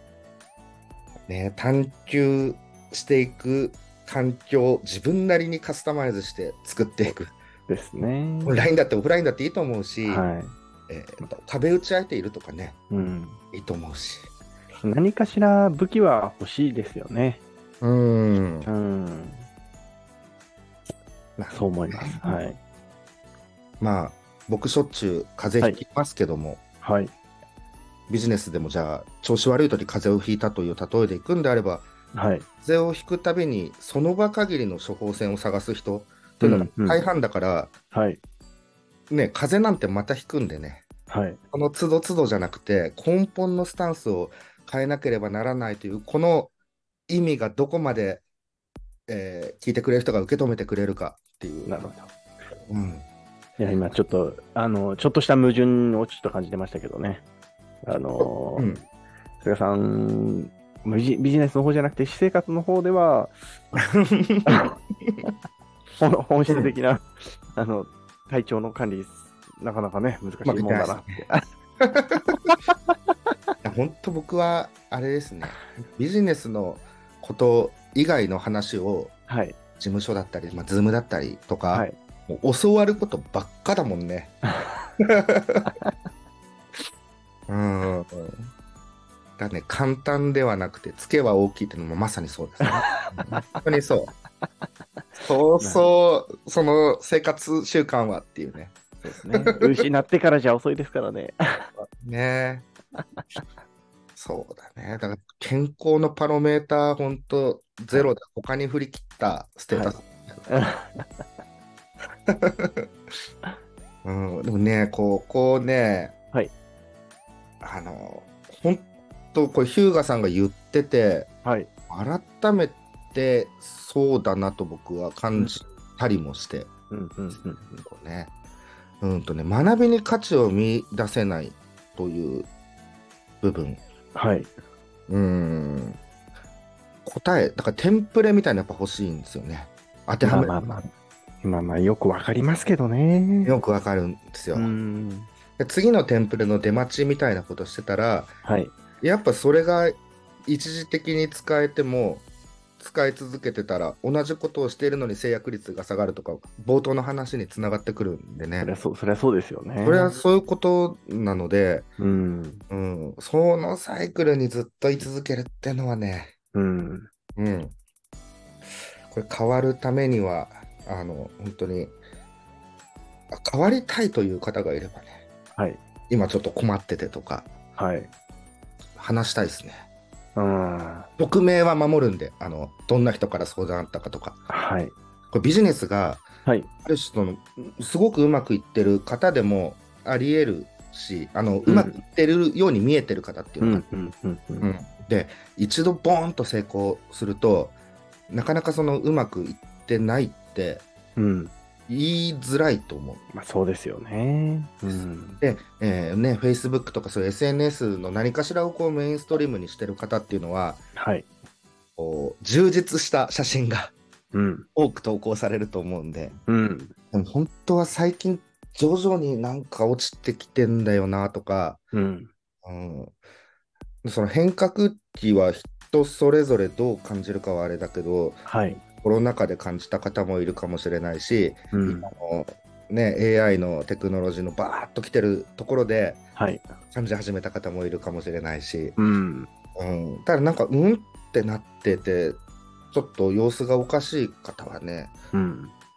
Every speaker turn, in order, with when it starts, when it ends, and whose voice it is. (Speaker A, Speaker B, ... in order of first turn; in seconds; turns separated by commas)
Speaker A: 1.3-7.3, Speaker B: 7.7-8.6, Speaker A: 8.4-10.2, Speaker B: 10.1-10.5, Speaker A: 10.9-12.8, Speaker B: 12.9-13.4, Speaker A: 13.5-14.3, Speaker B: 14.8-17.4, Speaker A: 17.8-18.7, Speaker B: 18.6-19.5, Speaker A: 21.4-22.4, Speaker B: 21.5-22.6, Speaker A: 23.8-26.6, Speaker B: 26.8-27.1, Speaker A: 28.1-31.9, Speaker B: 32.1-32.5, Speaker A: 32.6-37.7, Speaker B: 36.4-37.0, Speaker B: 37.9-38.2, Speaker A: 39.1-40.9, Speaker B: 41.1-41.4, Speaker A: 41.5-46.5, Speaker A: 47.1-48.2, Speaker A: 49.1-51.8, Speaker B: 51.7-52.1, Speaker A: 52.7-53.1, Speaker B: 53.6-57.2, Speaker B: 57.8-58.7, Speaker A: 58.2-58.8, Speaker B: 59.4-63.3, Speaker A: 63.8-65.2, Speaker B: 64.5-65.3, Speaker B: 66.0-71.5, Speaker A: 70.4-71.2, Speaker A: 71.8-72.3, Speaker A: 73.6-79.1, Speaker B: 79.3-79.6, Speaker A: 79.8-84.4, Speaker B: 81.7-82.0, Speaker B: 84.5-84.9, Speaker A: 85.0-85.7, Speaker A: 87.5-88.5, Speaker A: 89.4-94.1, Speaker B: 92.7-93.5, Speaker A: 95.2-98.8, Speaker B: 95.6-95.9, Speaker B: 99.0-101.7, Speaker A: 99.3-99.8, Speaker A: 101.8-102.7, Speaker A: 104.2-110.4, Speaker B: 109.7-111.1, Speaker A: 112.3-112.9, Speaker A: 114.0-116.1, Speaker A: 117.6-121.3, Speaker B: 121.4-121.7, Speaker A: 121.9-126.7, Speaker B: 125.3-125.7, Speaker B: 126.9-127.8, Speaker A: 127.7-128.3, Speaker A: 129.0-132.5, Speaker A: 133.4-133.8, Speaker B: 134.1-134.5, Speaker A: 135.1-136.0, Speaker A: 137.1-140.8, Speaker B: 140.2-140.9, Speaker B: 141.4-143.5, Speaker A: 143.4-144.7, Speaker B: 144.5-145.3, Speaker A: 145.6-148.3, Speaker B: 148.4-148.7, Speaker A: 149.0-152.2, Speaker A: 152.8-158.7, Speaker B: 158.6-160.2, Speaker A: 159.8-161.9, Speaker B: 162.0-162.6, Speaker A: 162.7-166.3, Speaker B: 166.5-167.1, Speaker A: 167.4-167.8, Speaker A: 169.1-171.9, Speaker A: 173.3-175.2, Speaker B: 175.6-175.8, Speaker A: 176.1-177.5, Speaker B: 177.8-178.1, Speaker A: 178.9-179.8, Speaker B: 180.4-181.1, Speaker A: 181.2-184.4, Speaker B: 184.5-184.9, Speaker A: 185.3-186.2, Speaker A: 186.8-193.8, Speaker B: 191.7-192.0, Speaker B: 193.6-194.7, Speaker A: 194.6-197.8, Speaker A: 198.3-200.8, Speaker B: 201.2-201.5, Speaker A: 201.9-203.2, Speaker B: 203.3-205.4, Speaker A: 204.9-210.8, Speaker B: 211.0-211.3, Speaker A: 212.0-213.9, Speaker B: 214.3-214.7, Speaker A: 214.8-216.4, Speaker B: 216.5-216.9, Speaker A: 217.1-221.8, Speaker B: 221.9-222.3, Speaker A: 222.6-223.1, Speaker A: 224.0-228.5, Speaker B: 228.5-228.8, Speaker A: 229.0-236.2, Speaker B: 231.7-232.1, Speaker B: 236.4-236.8, Speaker A: 236.9-239.0, Speaker B: 239.0-239.5, Speaker A: 239.8-242.4, Speaker A: 242.9-245.1, Speaker B: 245.3-245.7